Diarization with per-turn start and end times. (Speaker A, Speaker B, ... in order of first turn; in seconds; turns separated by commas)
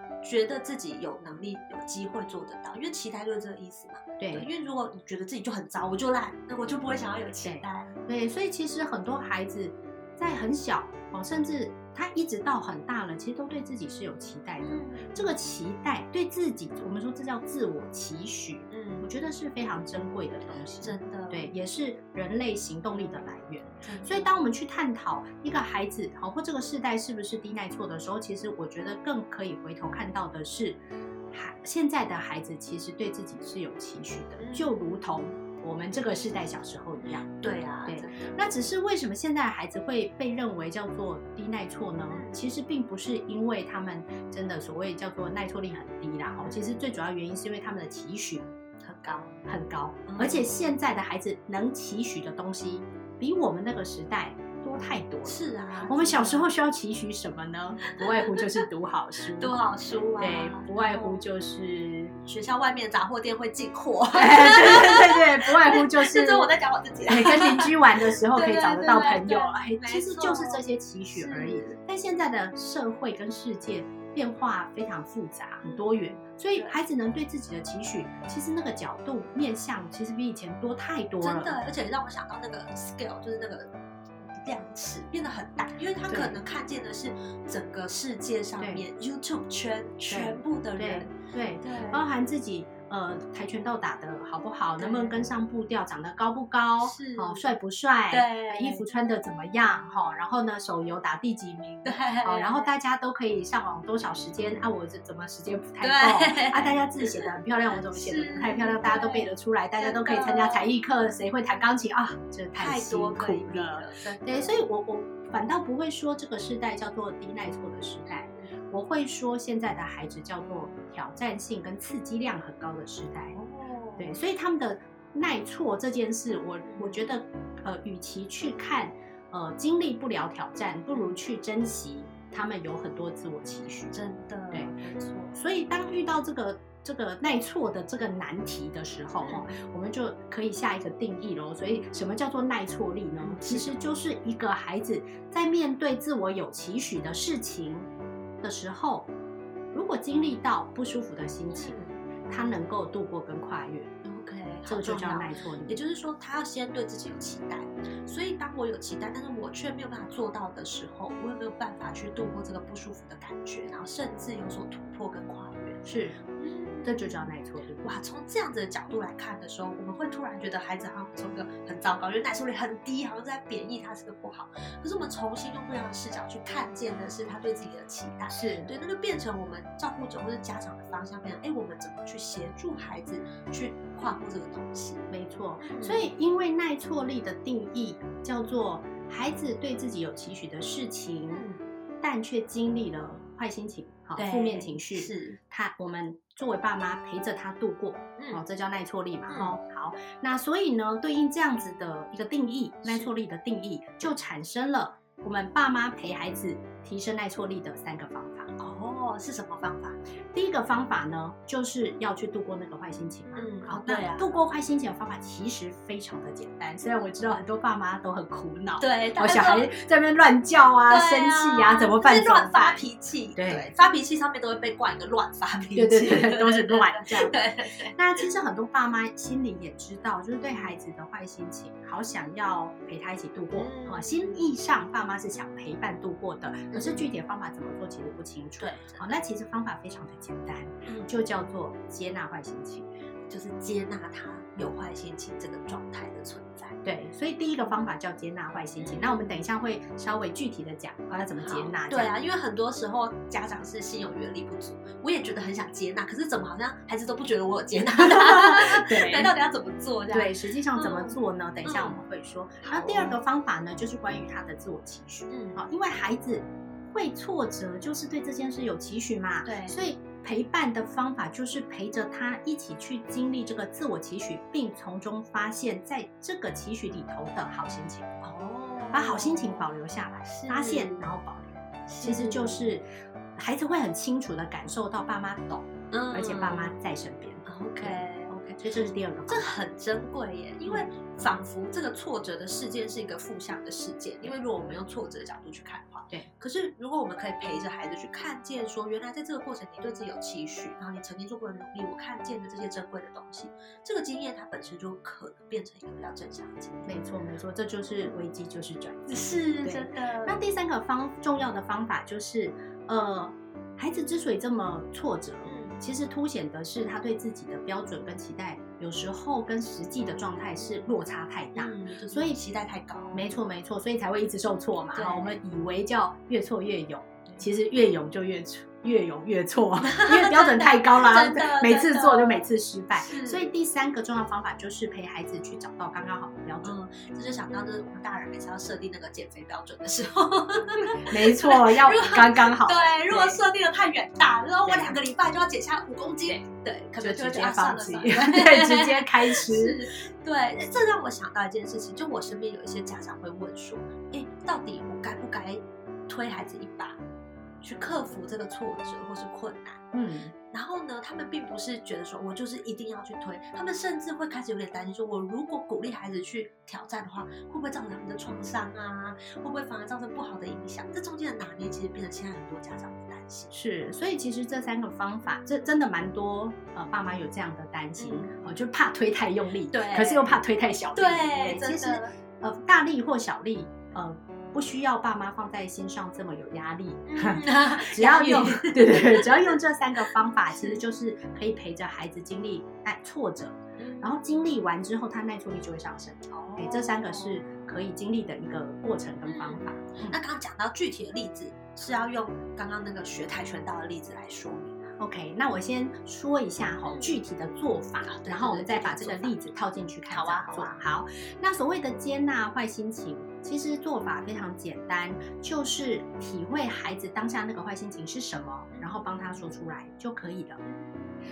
Speaker A: 0.2-7.9, Speaker B: 4.2-4.5, Speaker B: 7.4-37.3, Speaker A: 14.6-15.3, Speaker A: 18.7-19.1, Speaker A: 20.8-21.5, Speaker A: 23.8-24.4, Speaker A: 34.4-35.0, Speaker A: 37.0-38.4, Speaker B: 37.9-48.5, Speaker A: 42.1-42.4, Speaker A: 46.4-46.8, Speaker A: 48.8-49.4, Speaker B: 49.5-59.6, Speaker A: 50.1-50.5, Speaker A: 55.2-56.5, Speaker A: 57.9-58.7, Speaker A: 59.4-61.2, Speaker B: 60.2-62.1, Speaker A: 62.2-70.6, Speaker B: 64.1-66.5, Speaker B: 67.0-81.6, Speaker A: 71.1-71.7, Speaker A: 75.6-76.8, Speaker A: 81.2-83.7, Speaker A: 84.3-92.0, Speaker B: 86.1-86.4, Speaker B: 88.6-88.9, Speaker B: 90.1-123.4, Speaker A: 94.8-95.3, Speaker A: 96.8-97.5, Speaker A: 98.1-98.8, Speaker A: 101.8-102.7, Speaker A: 105.8-107.3, Speaker A: 107.9-110.7, Speaker A: 112.5-114.6, Speaker A: 118.0-118.5, Speaker A: 123.3-124.2, Speaker B: 124.0-134.0, Speaker A: 126.6-127.0, Speaker A: 133.9-135.3, Speaker B: 134.5-134.8, Speaker B: 135.3-147.9, Speaker A: 139.2-139.6, Speaker A: 143.2-143.8, Speaker B: 148.4-149.1, Speaker B: 149.7-151.8, Speaker A: 151.5-152.0, Speaker B: 152.3-153.9, Speaker A: 154.0-165.8, Speaker B: 154.7-155.8, Speaker B: 165.8-166.2, Speaker A: 166.4-167.3, Speaker B: 166.8-167.9, Speaker A: 167.8-185.0, Speaker B: 178.3-178.7, Speaker B: 185.1-191.4, Speaker A: 185.6-186.1, Speaker A: 191.3-191.6, Speaker B: 192.0-208.5, Speaker A: 194.2-195.4, Speaker A: 198.2-198.4, Speaker A: 199.3-199.6, Speaker A: 202.8-203.1, Speaker A: 208.6-210.0, Speaker B: 210.3-223.7, Speaker A: 213.3-214.4, Speaker A: 218.8-219.7, Speaker A: 220.9-228.2, Speaker B: 225.7-227.3, Speaker B: 227.9-242.9, Speaker A: 233.5-234.5, Speaker A: 236.7-237.1, Speaker A: 238.6-239.1, Speaker A: 240.8-241.1, Speaker A: 243.3-246.8, Speaker B: 246.8-252.1, Speaker A: 248.8-249.4, Speaker A: 251.4-262.0, Speaker B: 257.9-259.3, Speaker B: 260.1-278.1, Speaker A: 262.6-263.2, Speaker A: 265.3-265.6, Speaker A: 269.4-269.8, Speaker A: 278.2-279.7, Speaker B: 278.9-289.6, Speaker A: 280.2-281.1, Speaker A: 281.9-282.8, Speaker A: 285.9-286.8, Speaker A: 287.4-288.6, Speaker A: 289.3-306.9, Speaker B: 290.6-290.9, Speaker B: 306.9-322.4, Speaker A: 309.1-310.4, Speaker A: 315.4-315.8, Speaker A: 321.5-323.3, Speaker B: 323.1-336.7, Speaker A: 324.9-325.4, Speaker A: 329.8-333.5, Speaker A: 336.6-357.0, Speaker B: 340.8-343.4, Speaker B: 344.6-345.0, Speaker B: 347.0-349.9, Speaker A: 357.6-359.9, Speaker B: 359.9-360.3, Speaker A: 360.5-373.5, Speaker B: 373.5-400.2, Speaker A: 378.0-378.5, Speaker A: 379.7-380.4, Speaker A: 380.9-382.1, Speaker A: 387.1-389.6, Speaker A: 390.5-390.8, Speaker A: 393.8-394.5, Speaker A: 396.3-397.4, Speaker A: 399.2-404.9, Speaker B: 405.0-420.6, Speaker A: 406.8-407.2, Speaker A: 408.0-409.4, Speaker A: 410.1-410.8, Speaker A: 418.7-419.1, Speaker A: 420.6-421.1